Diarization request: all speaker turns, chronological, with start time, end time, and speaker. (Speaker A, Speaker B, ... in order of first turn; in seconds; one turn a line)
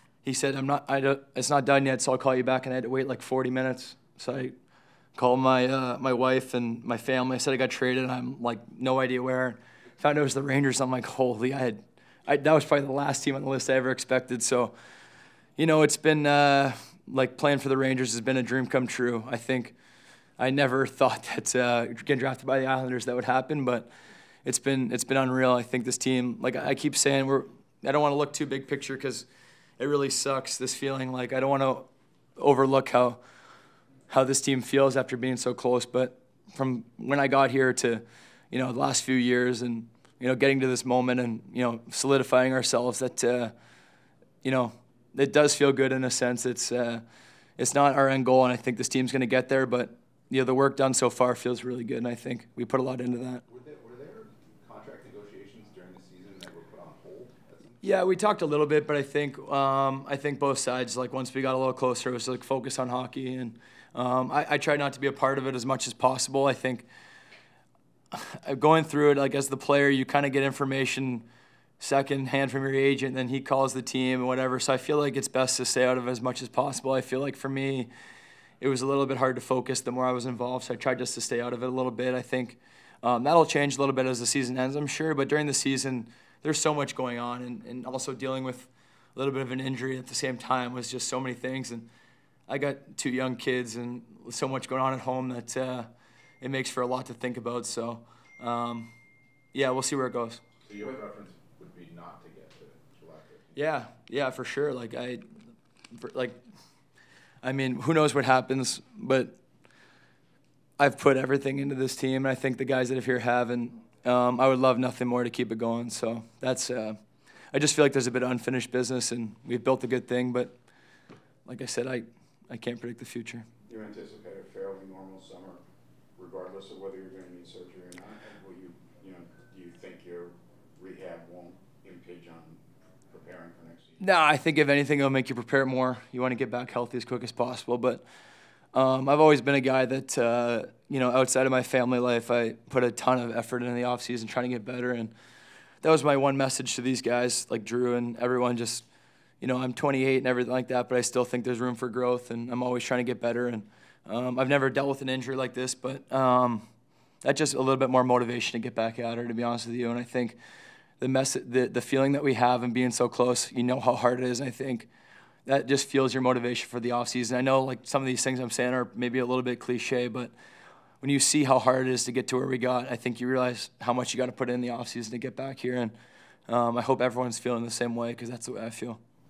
Speaker A: 0.2-4.5
Speaker A: 5.2-14.7
Speaker A: 15.6-19.8
Speaker A: 20.4-23.9
Speaker A: 24.4-29.3
Speaker A: 29.8-31.9
Speaker A: 32.4-33.2
Speaker A: 34.1-43.5
Speaker A: 44.4-47.0
Speaker A: 47.6-53.4
Speaker B: 53.5-57.8
Speaker A: 57.8-66.9
Speaker A: 68.1-71.2
Speaker A: 71.8-77.9
Speaker A: 78.6-91.9
Speaker A: 92.5-95.9
Speaker A: 96.4-98.9
Speaker A: 99.5-100.4
Speaker B: 100.6-103.6
Speaker A: 103.5-105.2
Speaker A: 105.9-106.4
Speaker A: 107.4-109.3
Speaker A: 110.8-117.0
Speaker A: 117.5-120.5
Speaker A: 121.5-123.5
Speaker C: 123.7-125.6
Speaker C: 126.2-134.0
Speaker A: 134.0-138.0
Speaker A: 138.7-145.1
Speaker A: 145.8-148.8
Speaker A: 149.4-156.6
Speaker A: 157.2-160.4
Speaker A: 161.0-164.9
Speaker A: 165.5-170.3
Speaker A: 171.0-175.9
Speaker A: 176.5-179.0